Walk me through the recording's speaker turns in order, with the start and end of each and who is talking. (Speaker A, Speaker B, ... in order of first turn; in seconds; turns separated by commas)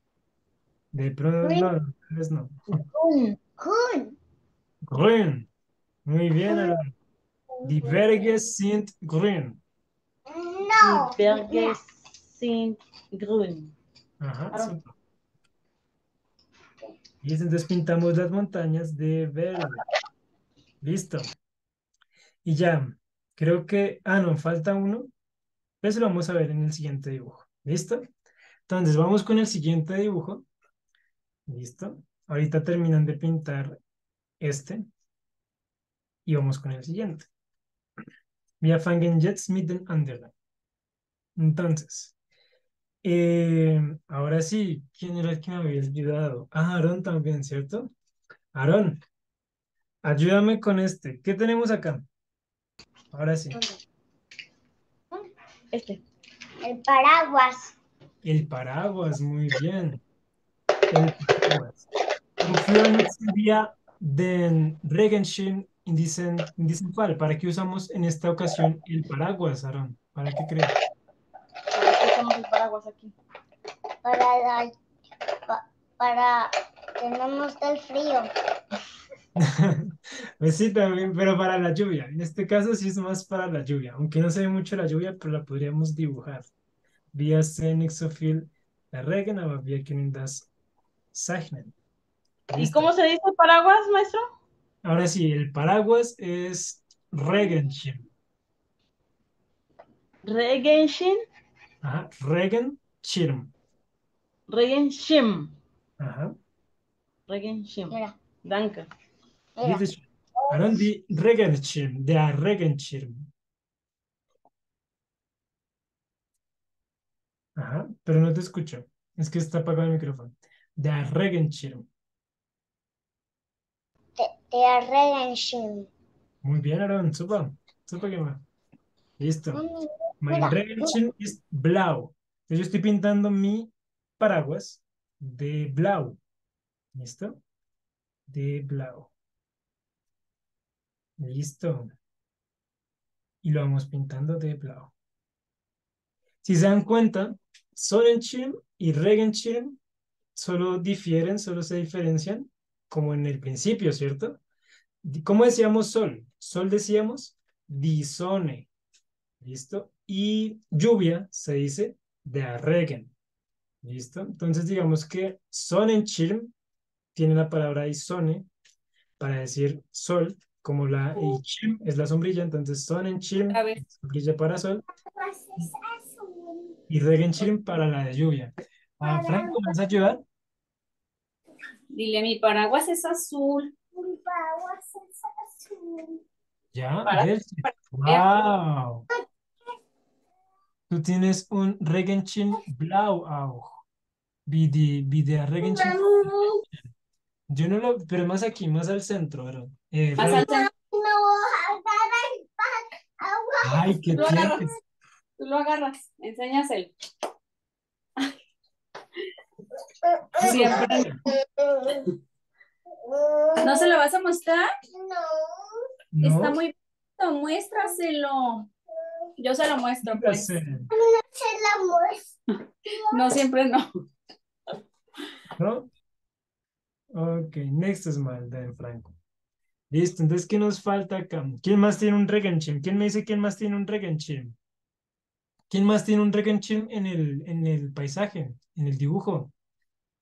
Speaker A: 0.9-2.5, Speaker B: 1.4-1.7, Speaker C: 2.9-3.4, Speaker B: 3.6-4.2, Speaker A: 4.9-5.5, Speaker A: 6.0-6.9, Speaker B: 6.5-6.8, Speaker B: 7.6-8.2, Speaker A: 7.6-9.6, Speaker B: 10.3-11.8, Speaker C: 10.8-13.7, Speaker A: 14.2-14.9, Speaker A: 17.2-19.8, Speaker A: 20.8-21.3, Speaker A: 22.4-25.1, Speaker A: 25.8-28.0, Speaker A: 28.7-30.4, Speaker A: 31.5-33.8, Speaker A: 34.4-34.8, Speaker A: 36.2-37.3, Speaker A: 38.6-40.3, Speaker A: 41.4-42.1, Speaker A: 43.0-47.9, Speaker A: 48.5-49.0, Speaker A: 50.0-52.0, Speaker A: 53.1-53.6, Speaker B: 53.5-53.8, Speaker C: 55.7-56.0, Speaker B: 56.6-57.8, Speaker A: 58.2-60.0, Speaker A: 60.9-61.9, Speaker A: 62.4-70.7, Speaker C: 71.7-73.1, Speaker B: 74.0-74.7, Speaker B: 75.5-78.3, Speaker A: 79.3-86.5, Speaker A: 87.1-90.5, Speaker A: 91.1-91.7, Speaker A: 92.5-92.9, Speaker C: 92.5-94.2, Speaker A: 94.8-98.0, Speaker C: 100.2-101.2, Speaker A: 101.8-103.5, Speaker C: 104.5-105.5, Speaker A: 106.0-106.3, Speaker C: 107.3-108.9, Speaker B: 107.9-108.2, Speaker B: 109.6-109.8, Speaker A: 109.6-113.3, Speaker B: 110.4-110.8, Speaker A: 117.5-121.9, Speaker B: 124.2-125.9, Speaker A: 126.4-128.4, Speaker A: 129.2-129.6, Speaker B: 129.5-130.9, Speaker A: 130.2-136.2, Speaker A: 136.9-137.4, Speaker A: 138.3-139.1, Speaker A: 141.2-141.9, Speaker A: 143.4-144.9, Speaker A: 146.4-149.8, Speaker A: 150.3-154.4, Speaker A: 155.0-158.7, Speaker A: 159.4-163.1, Speaker A: 163.8-166.5, Speaker A: 167.1-168.5, Speaker A: 169.2-174.8, Speaker D: 173.5-173.8, Speaker B: 175.1-176.8, Speaker A: 176.9-180.2, Speaker B: 179.0-179.8, Speaker D: 181.9-183.7, Speaker B: 183.9-186.2, Speaker A: 186.7-189.0, Speaker D: 187.1-188.2, Speaker A: 190.9-193.8, Speaker A: 194.4-196.3, Speaker B: 195.6-196.6, Speaker A: 197.5-200.5, Speaker D: 200.2-200.7, Speaker B: 200.2-204.6, Speaker A: 203.6-204.7, Speaker D: 204.2-204.7, Speaker D: 205.4-206.9, Speaker B: 210.0-212.1, Speaker A: 210.4-211.2, Speaker D: 210.4-210.9, Speaker B: 213.0-214.0, Speaker D: 213.6-214.6, Speaker B: 214.9-215.8, Speaker A: 216.1-216.6, Speaker D: 216.2-218.7, Speaker D: 219.4-220.5, Speaker A: 220.1-220.9, Speaker B: 220.9-222.3, Speaker D: 223.1-223.9, Speaker A: 225.6-225.9, Speaker A: 227.1-229.1, Speaker A: 229.9-234.6, Speaker A: 235.7-239.5